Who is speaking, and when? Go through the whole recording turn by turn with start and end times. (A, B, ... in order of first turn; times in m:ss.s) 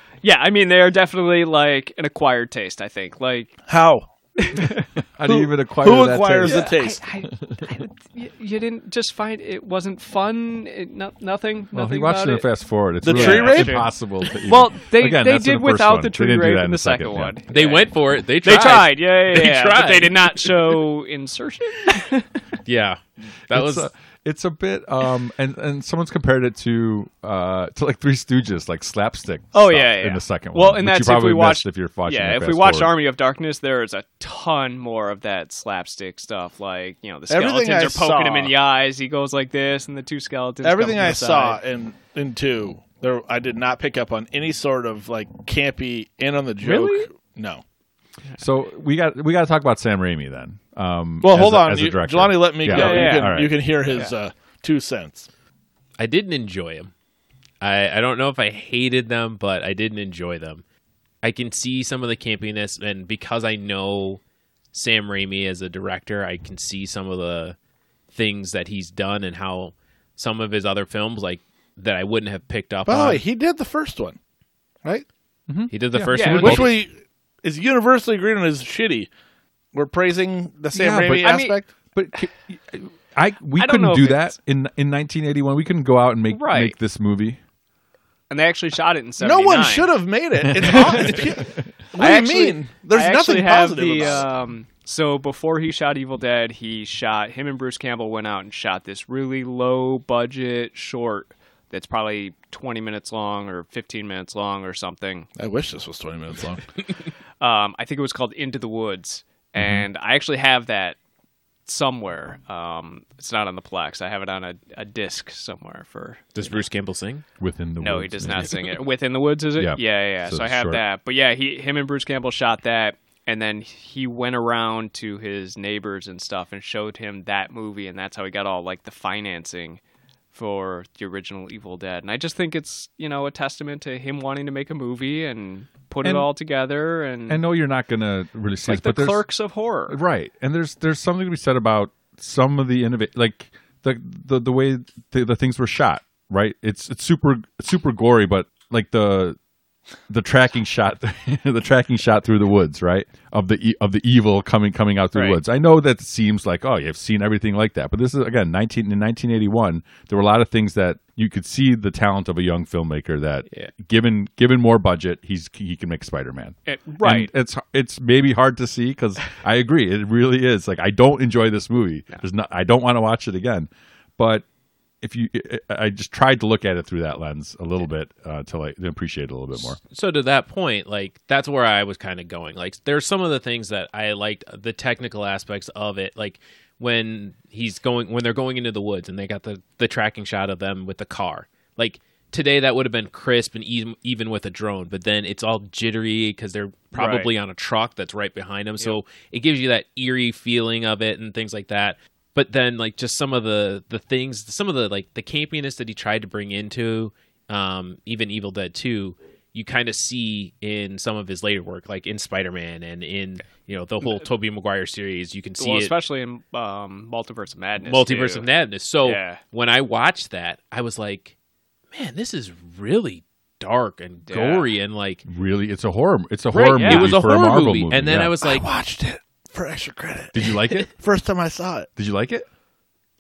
0:00.2-0:03.6 A
0:03.7-0:04.1 B
0:04.4-0:04.9 A
0:05.2-0:06.7 C
0:05.3-0:07.0 B
0:06.4-0:12.5 A
0:11.7-0:17.4 C
0:13.0-0:13.9 B
0:13.0-0:13.9 A
0:14.4-0:22.3 A
0:17.5-0:20.8 D
0:22.6-0:23.9 D
0:23.5-0:32.9 C
0:29.5-0:41.6 A
0:37.3-0:38.6 B
0:40.6-0:47.6 B
0:46.6-0:47.1 A
0:48.4-0:53.6 C
0:51.2-0:55.3 B
0:52.7-0:53.4 A
0:56.0-0:56.9 D
0:57.6-1:00.6 D
1:01.2-1:04.2 D
1:04.7-1:07.6 D
1:08.1-1:13.2 D
1:12.9-1:14.2 B
1:15.5-1:16.7 C
1:15.7-1:16.8 D
1:16.1-1:16.7 A
1:16.3-1:19.1 B
1:19.7-1:21.7 B
1:20.7-1:27.4 C
1:21.2-1:21.6 A
1:23.6-1:24.3 A
1:26.3-1:26.8 A
1:28.3-1:29.9 A
1:29.2-1:34.3 B
1:30.4-1:31.6 C
1:30.7-1:31.2 A
1:32.0-1:45.3 A
1:45.4-1:46.8 B
1:47.4-1:51.0 A
1:49.6-1:49.9 C
1:51.7-1:56.6 A
1:56.4-1:57.2 D
1:57.4-1:58.7 C
1:57.8-2:09.8 A
1:59.6-2:00.8 C
2:10.3-2:17.4 A
2:16.0-2:16.3 C
2:17.3-2:19.2 C
2:18.6-2:20.0 A
2:19.9-2:29.4 C
2:30.1-2:54.4 C
2:35.2-2:35.4 A
2:46.7-2:47.3 A
2:55.0-2:59.8 C
2:59.8-3:35.9 D
3:16.9-3:17.3 A
3:35.6-3:38.5 A
3:37.8-3:41.3 D
3:39.0-3:39.4 A
3:41.9-3:45.2 D
3:44.3-3:44.7 A
3:45.3-3:48.4 C
3:46.5-3:48.7 D
3:46.7-3:47.1 A
3:48.4-3:51.9 B
3:50.3-3:50.9 C
3:52.0-3:52.5 C